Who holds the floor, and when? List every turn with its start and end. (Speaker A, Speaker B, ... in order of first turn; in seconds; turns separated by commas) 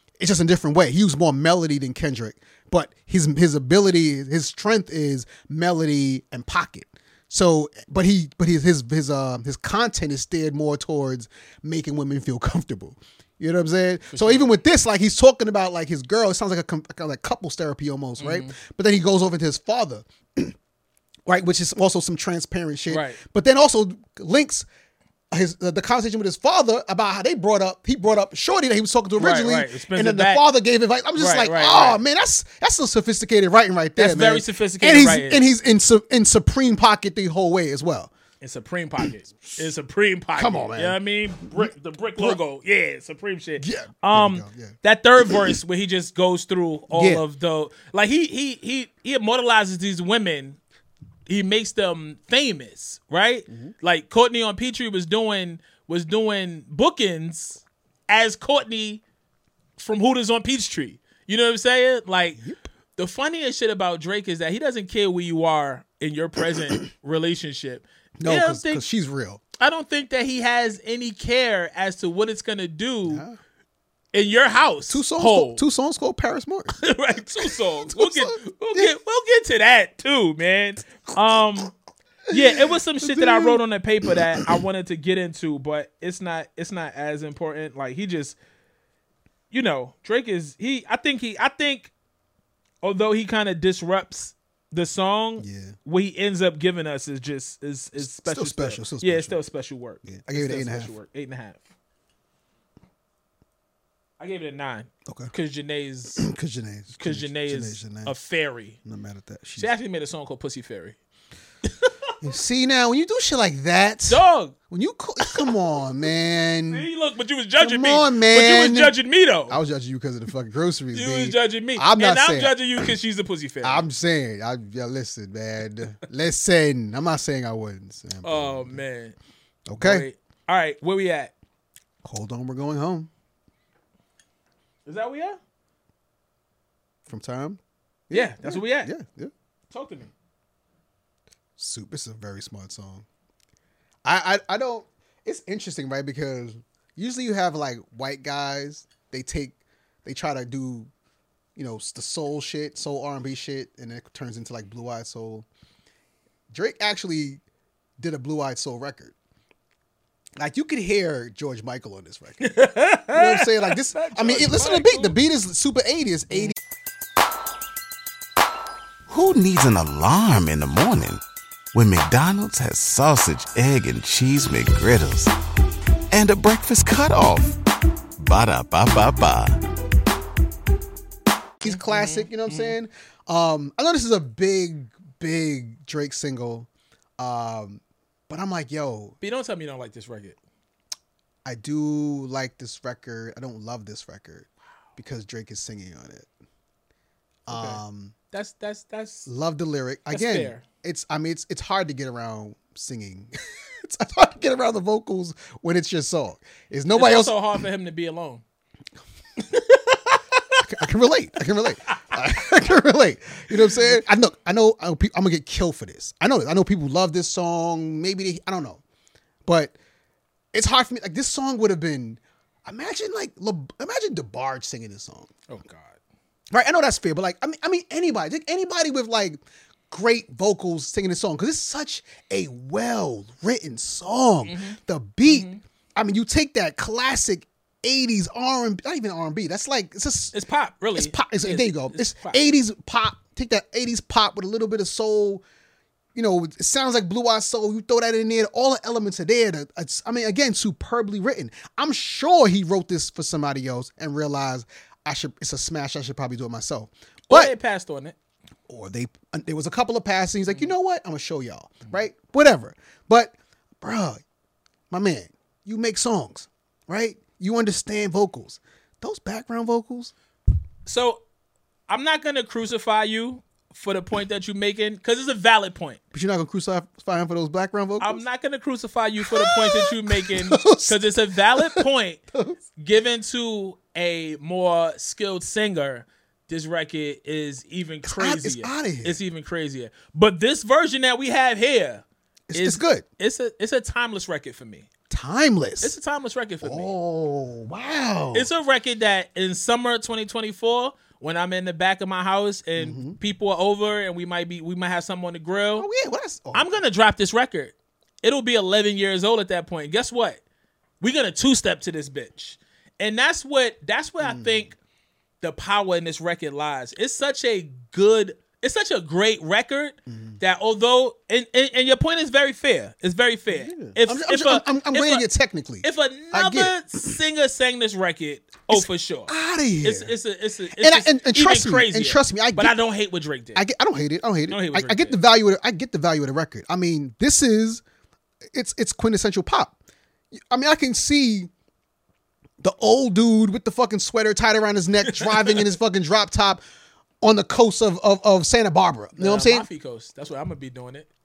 Speaker A: 0.2-20.5, Speaker B: 14.1-14.5, Speaker B: 18.2-18.5, Speaker A: 21.2-24.7, Speaker B: 22.9-23.2, Speaker A: 25.3-38.1, Speaker B: 29.2-30.4, Speaker B: 31.2-32.0, Speaker B: 34.0-35.5, Speaker B: 38.4-50.6, Speaker A: 39.0-39.6, Speaker A: 40.4-41.0, Speaker A: 41.5-42.4, Speaker A: 43.6-45.5, Speaker A: 46.9-47.2, Speaker B: 51.3-59.0, Speaker B: 59.8-62.4, Speaker A: 62.4-62.6, Speaker B: 63.0-68.8, Speaker A: 68.2-69.4, Speaker B: 69.6-73.2, Speaker A: 73.0-73.4, Speaker B: 74.1-75.6, Speaker A: 74.9-76.8, Speaker B: 76.8-81.7, Speaker A: 77.4-78.9, Speaker A: 82.3-84.5, Speaker B: 82.3-88.3, Speaker B: 89.5-91.9, Speaker B: 92.8-101.7, Speaker A: 95.4-95.7, Speaker A: 98.0-99.4, Speaker A: 100.0-100.9, Speaker B: 104.2-106.2, Speaker A: 105.1-105.3, Speaker A: 106.2-108.1, Speaker B: 107.0-108.8, Speaker A: 108.8-109.7, Speaker B: 109.6-111.0, Speaker B: 111.6-112.1, Speaker A: 112.2-116.9, Speaker B: 114.1-114.5, Speaker B: 116.7-119.6, Speaker A: 117.6-118.9, Speaker A: 119.5-122.8, Speaker B: 120.9-123.8, Speaker A: 123.6-128.8, Speaker B: 128.2-129.2, Speaker A: 129.7-130.1, Speaker B: 129.8-131.3, Speaker A: 132.0-133.1, Speaker B: 134.8-135.4, Speaker A: 137.1-139.3, Speaker B: 138.1-138.9, Speaker B: 139.7-140.1, Speaker A: 141.6-143.0, Speaker A: 144.0-150.9, Speaker A: 151.6-155.4, Speaker A: 156.5-157.4, Speaker A: 158.0-159.1, Speaker A: 160.4-162.5, Speaker B: 162.4-165.2, Speaker A: 163.1-166.5, Speaker C: 169.1-171.2, Speaker C: 171.7-175.3, Speaker C: 176.1-177.6, Speaker C: 178.2-179.6, Speaker A: 181.6-186.7, Speaker B: 181.7-182.8, Speaker A: 187.2-189.2, Speaker B: 189.2-190.4, Speaker A: 191.4-196.3, Speaker A: 197.5-198.1, Speaker B: 197.5-197.8, Speaker B: 198.3-199.3, Speaker A: 199.2-207.4, Speaker B: 200.1-200.6, Speaker B: 206.9-208.4, Speaker B: 209.4-210.6, Speaker A: 210.6-218.8, Speaker B: 211.9-212.2, Speaker A: 219.4-219.8, Speaker A: 220.5-225.3, Speaker B: 225.5-226.0, Speaker A: 226.5-240.3, Speaker B: 234.4-235.6, Speaker B: 240.3-242.4, Speaker A: 240.9-245.4, Speaker A: 246.1-257.5, Speaker B: 257.3-258.1, Speaker A: 258.7-264.2, Speaker A: 264.9-270.1, Speaker B: 270.9-271.2, Speaker B: 271.9-276.0, Speaker A: 276.1-278.2, Speaker B: 278.0-282.2, Speaker A: 279.2-282.6, Speaker B: 282.8-294.9, Speaker A: 288.0-289.2, Speaker A: 292.5-293.0, Speaker A: 295.1-296.0, Speaker B: 295.8-296.9, Speaker A: 296.6-298.5, Speaker B: 298.3-305.9, Speaker A: 302.8-303.2, Speaker A: 305.8-306.8, Speaker B: 306.5-310.4, Speaker B: 311.0-314.8, Speaker A: 314.2-314.7, Speaker B: 315.4-325.2, Speaker A: 320.1-320.4, Speaker A: 323.5-326.8, Speaker B: 325.8-333.6, Speaker A: 328.7-330.1, Speaker A: 330.8-332.8, Speaker A: 333.5-337.8, Speaker B: 334.5-335.2, Speaker A: 338.5-339.7, Speaker A: 340.3-341.5, Speaker A: 342.6-346.6, Speaker B: 345.1-345.6, Speaker A: 347.2-349.7, Speaker B: 349.2-351.1